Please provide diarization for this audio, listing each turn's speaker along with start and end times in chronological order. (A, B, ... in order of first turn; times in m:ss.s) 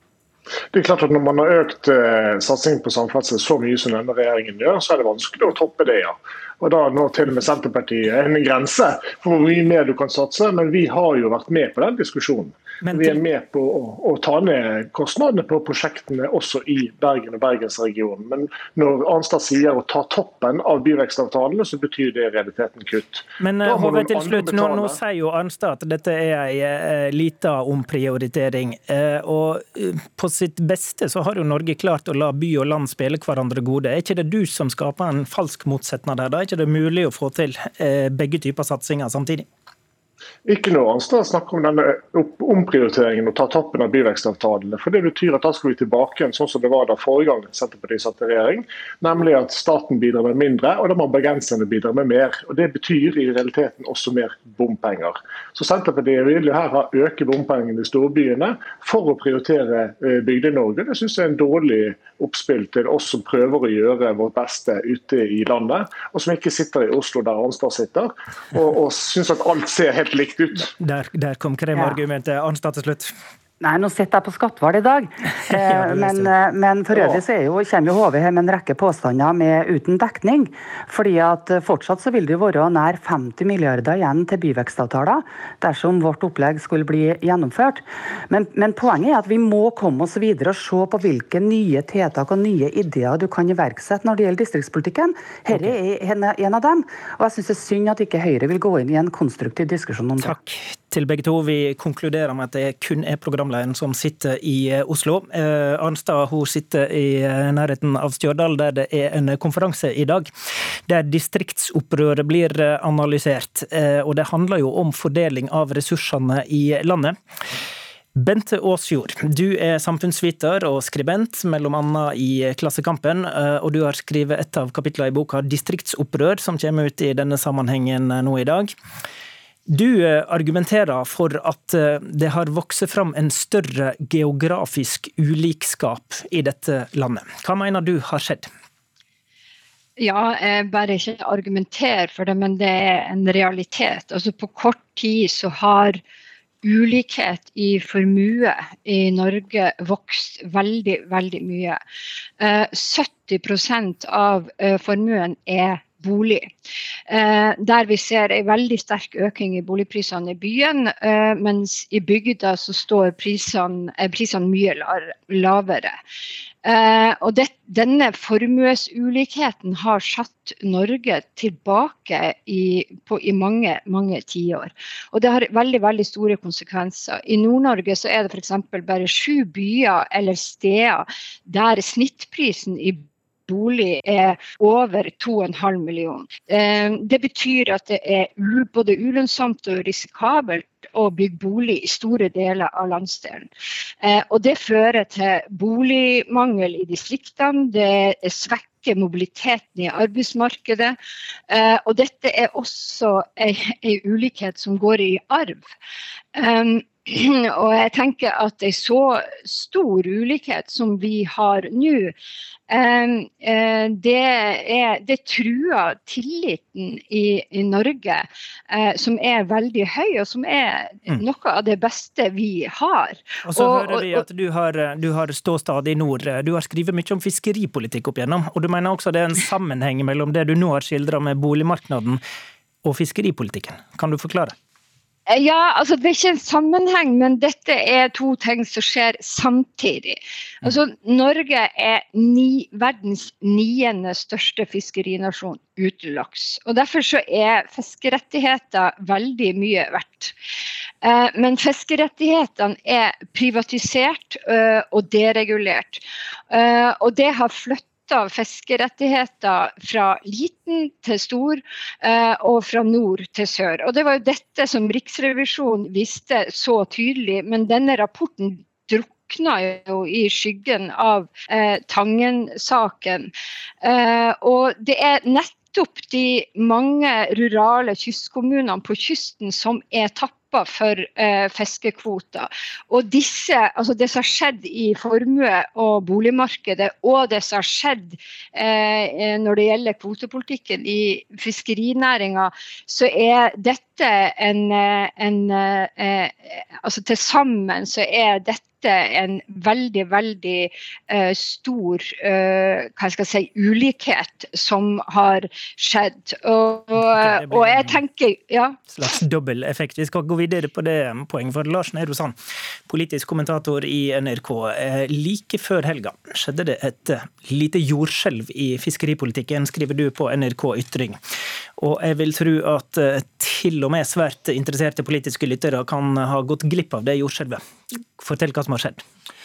0:00.7-0:25.0 A
0:12.8-0:13.2 B
0:23.4-0:39.5 B
0:40.4-1:10.7 A
1:10.8-1:13.1 B
1:11.7-1:12.0 C
1:13.6-1:40.4 C
1:15.4-1:16.3 B
1:16.9-1:17.2 A
1:40.2-1:50.3 B
1:50.9-1:57.1 B
1:58.1-2:08.7 B
2:09.7-2:18.5 B
2:20.0-2:26.0 D
2:26.6-2:31.8 D
2:32.4-2:36.5 D
2:37.1-2:45.9 D
2:46.6-3:13.5 D
3:14.0-3:21.0 D
3:21.5-3:25.7 D
3:26.3-3:32.1 D
3:32.7-3:44.2 D
3:43.4-3:52.2 B
3:52.8-3:54.5 B
3:55.3-4:10.3 D
4:11.0-4:33.3 D
4:33.8-5:08.8 D
5:07.1-5:08.0 B
5:08.9-5:12.3 B
5:12.9-5:21.2 B
5:21.8-5:27.6 B
5:28.2-5:29.0 B